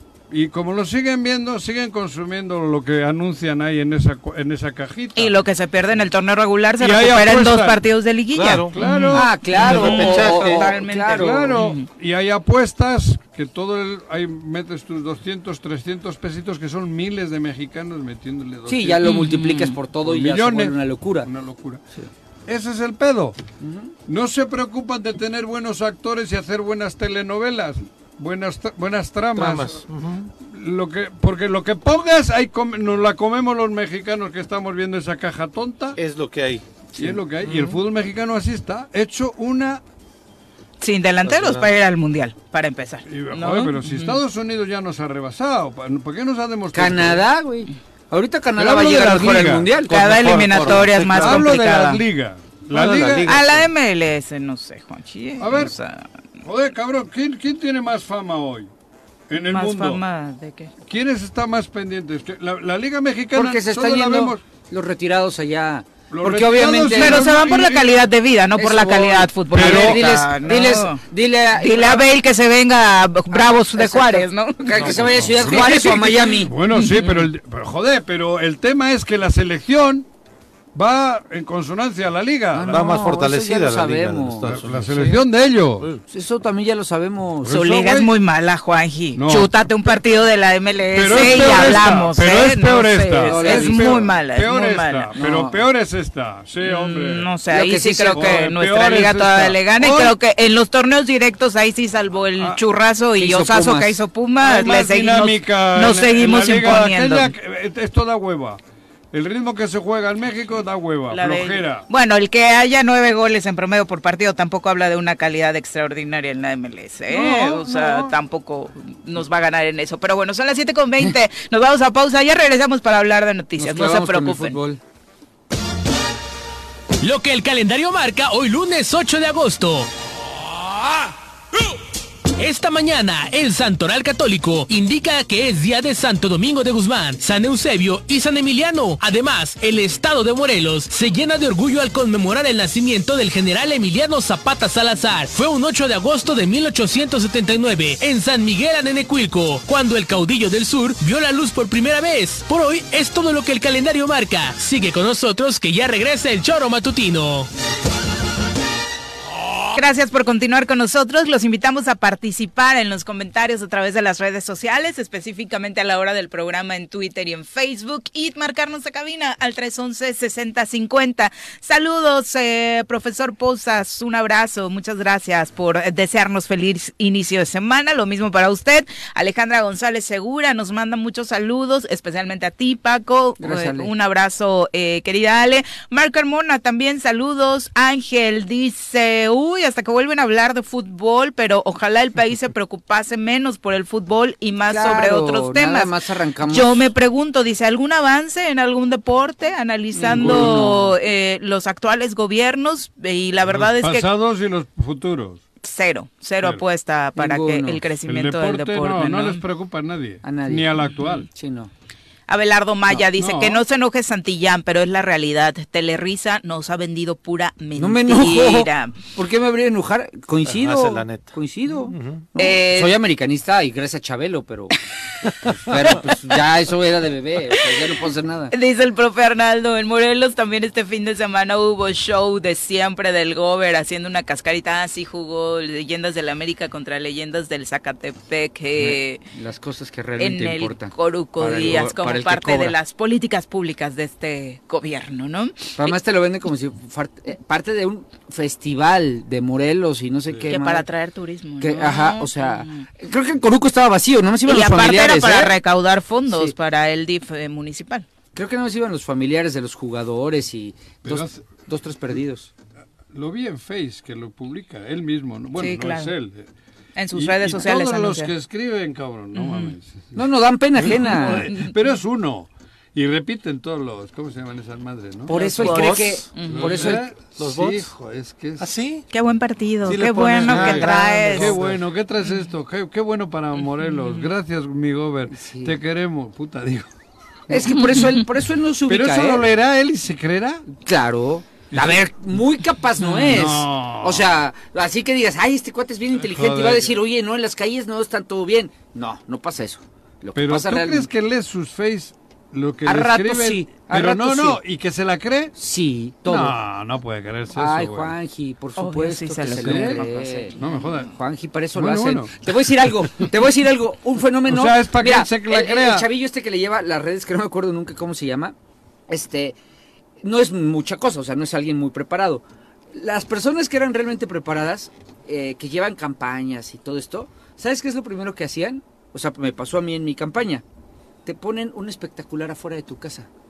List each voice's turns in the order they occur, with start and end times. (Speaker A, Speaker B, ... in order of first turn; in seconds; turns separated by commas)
Speaker A: 0.3-5.4, Speaker B: 5.2-11.9, Speaker A: 6.8-7.8, Speaker C: 8.3-8.7, Speaker A: 8.7-10.4, Speaker D: 9.1-11.6, Speaker C: 9.5-10.6, Speaker A: 11.1-19.0, Speaker D: 18.7-21.3, Speaker B: 19.0-19.8, Speaker A: 20.0-21.8, Speaker A: 22.5-23.4, Speaker D: 23.6-23.9, Speaker A: 24.1-29.8, Speaker C: 29.4-30.3, Speaker A: 30.4-36.0, Speaker C: 35.9-37.8, Speaker A: 37.0-39.8, Speaker B: 40.8-44.2, Speaker A: 43.1-47.2, Speaker D: 46.7-49.9, Speaker A: 48.6-49.8, Speaker C: 49.9-51.5, Speaker B: 49.9-52.0, Speaker A: 51.1-53.4, Speaker C: 52.7-53.7, Speaker B: 53.2-56.0, Speaker A: 55.4-55.7, Speaker A: 56.4-58.7, Speaker A: 59.3-60.0, Speaker B: 59.4-60.7, Speaker A: 60.9-64.4, Speaker D: 63.3-67.4, Speaker A: 66.1-68.0, Speaker B: 66.9-71.0, Speaker D: 68.5-72.0, Speaker A: 69.5-70.2, Speaker B: 71.6-74.6, Speaker D: 73.3-76.5, Speaker C: 74.7-75.6, Speaker A: 75.2-80.0, Speaker B: 76.7-77.2, Speaker A: 80.7-83.1, Speaker D: 82.5-84.5, Speaker C: 82.7-85.2, Speaker A: 84.5-85.9, Speaker D: 86.1-87.6, Speaker A: 87.4-88.1, Speaker B: 87.5-95.1, Speaker A: 89.1-89.5, Speaker A: 90.9-97.3, Speaker D: 93.2-94.1, Speaker D: 95.1-95.6, Speaker B: 96.6-107.3, Speaker D: 97.5-98.5, Speaker A: 98.1-100.2, Speaker D: 103.2-103.9, Speaker A: 104.4-108.6, Speaker A: 109.1-111.8, Speaker B: 111.1-124.6, Speaker A: 117.1-118.1, Speaker D: 123.6-124.8, Speaker E: 127.0-129.9, Speaker E: 132.4-157.5, Speaker B: 159.7-195.9, Speaker D: 183.4-183.9, Speaker D: 194.7-196.9, Speaker B: 196.5-204.1, Speaker D: 200.0-200.9, Speaker A: 200.1-200.8, Speaker A: 203.4-205.4, Speaker B: 205.6-209.4, Speaker D: 207.2-207.8, Speaker A: 208.0-211.3, Speaker D: 210.2-211.7, Speaker B: 212.3-218.9, Speaker A: 213.1-213.6, Speaker D: 217.8-224.8, Speaker C: 220.4-222.3, Speaker B: 222.4-222.9, Speaker D: 225.6-228.5, Speaker B: 228.5-239.2, Speaker D: 238.8-242.8, Speaker B: 240.2-245.9, Speaker D: 245.8-250.8, Speaker B: 250.4-252.8, Speaker D: 251.6-255.6, Speaker B: 254.4-258.1, Speaker D: 258.3-262.5, Speaker A: 261.0-261.5, Speaker A: 263.1-266.5, Speaker B: 265.6-266.1, Speaker B: 266.9-268.3, Speaker A: 267.1-270.2, Speaker B: 269.3-269.7, Speaker D: 270.1-271.5, Speaker A: 270.8-278.7, Speaker D: 275.3-277.1, Speaker B: 275.6-276.8, Speaker C: 275.6-276.3, Speaker C: 276.8-277.9, Speaker C: 278.6-279.1, Speaker B: 279.1-281.6, Speaker C: 279.8-281.8, Speaker A: 280.4-286.9, Speaker B: 283.9-284.3, Speaker D: 285.3-285.7, Speaker D: 287.5-289.5, Speaker A: 288.9-290.7, Speaker D: 290.8-301.1, Speaker A: 291.7-292.0, Speaker A: 293.1-294.3, Speaker A: 296.2-297.0, Speaker A: 300.3-305.5, Speaker D: 302.8-304.6, Speaker D: 305.6-306.6, Speaker A: 306.2-308.1, Speaker D: 307.5-310.6, Speaker B: 308.8-311.1, Speaker A: 309.4-311.1, Speaker D: 311.1-318.5, Speaker A: 311.7-312.4, Speaker A: 314.5-316.1, Speaker D: 319.1-319.6, Speaker D: 320.2-330.6, Speaker D: 331.2-333.3